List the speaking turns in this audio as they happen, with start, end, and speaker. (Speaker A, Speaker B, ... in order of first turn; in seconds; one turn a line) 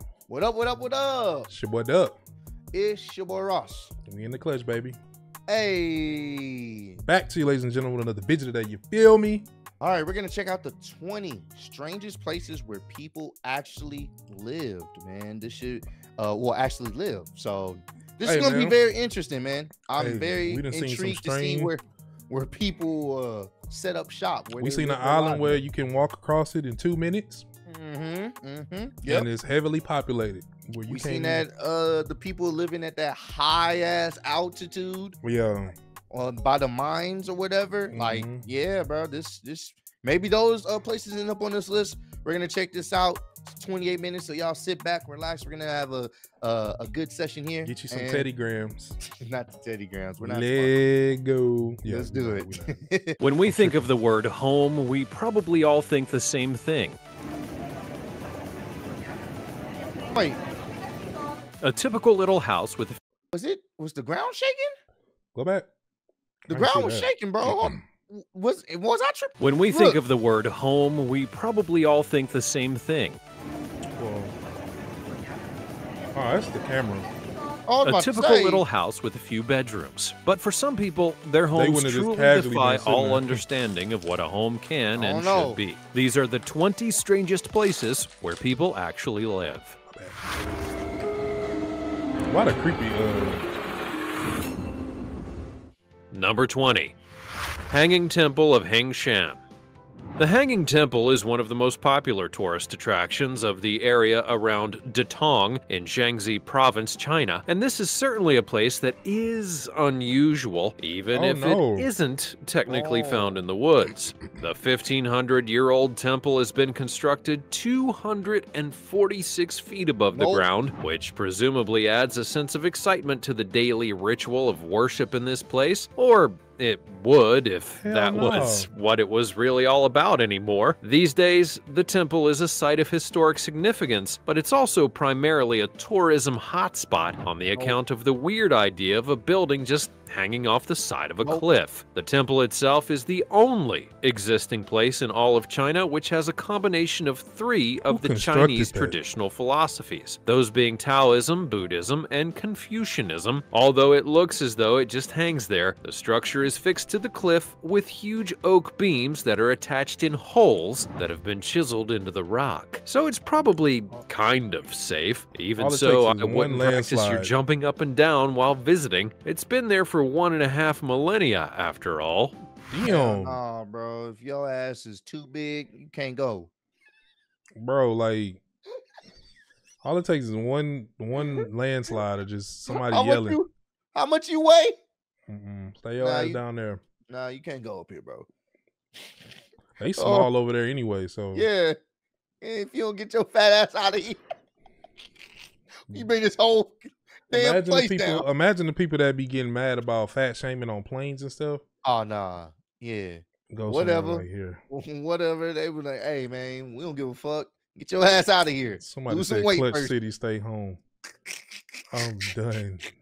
Speaker A: 0.3-1.5
Speaker B: 1.5-2.2
Speaker A: 2.7-3.9
Speaker B: 4.1-5.0
Speaker A: 5.5-7.0
Speaker B: 7.1-9.5
Speaker A: 9.8-25.6
Speaker B: 18.2-18.8
Speaker B: 19.9-21.7
Speaker B: 24.6-27.4
Speaker A: 27.7-29.3
Speaker B: 29.1-31.4
Speaker A: 30.9-35.2
Speaker B: 35.2-35.7
Speaker A: 36.1-48.3
Speaker B: 37.9-38.5
Speaker B: 47.6-49.0
Speaker A: 49.0-50.8
Speaker B: 50.2-52.8
Speaker A: 51.8-53.2
Speaker C: 53.2-57.0
Speaker B: 53.5-53.8
Speaker A: 60.1-60.4
Speaker C: 61.6-63.0
Speaker A: 63.3-64.7
Speaker B: 65.3-65.7
Speaker B: 66.5-67.8
Speaker A: 66.5-70.0
Speaker C: 69.4-73.2
Speaker B: 74.0-74.3
Speaker B: 76.2-77.1
Speaker A: 77.7-78.7
Speaker C: 77.8-89.8
Speaker B: 81.5-83.5
Speaker A: 85.0-85.6
Speaker B: 89.9-90.6
Speaker B: 92.3-93.5
Speaker C: 96.1-96.9
Speaker C: 97.7-99.4
Speaker C: 100.2-172.3
Speaker B: 111.1-111.9
Speaker A: 112.7-113.4
Speaker A: 120.1-120.5
Speaker B: 127.8-128.7
Speaker B: 147.8-149.0
Speaker B: 165.6-167.3
Speaker B: 172.7-173.4
Speaker A: 172.8-176.5
Speaker B: 177.6-178.4
Speaker B: 179.8-183.4
Speaker A: 181.2-181.4
Speaker A: 182.7-184.8
Speaker B: 185.3-186.8
Speaker A: 186.0-186.4
Speaker A: 187.1-188.3
Speaker B: 189.8-191.5
Speaker A: 190.0-190.3
Speaker A: 191.3-191.8
Speaker A: 192.4-194.2
Speaker A: 195.9-198.3
Speaker B: 197.3-201.6
Speaker A: 201.8-209.9
Speaker B: 203.5-204.6
Speaker B: 208.8-210.8
Speaker A: 211.3-211.6
Speaker B: 211.9-212.9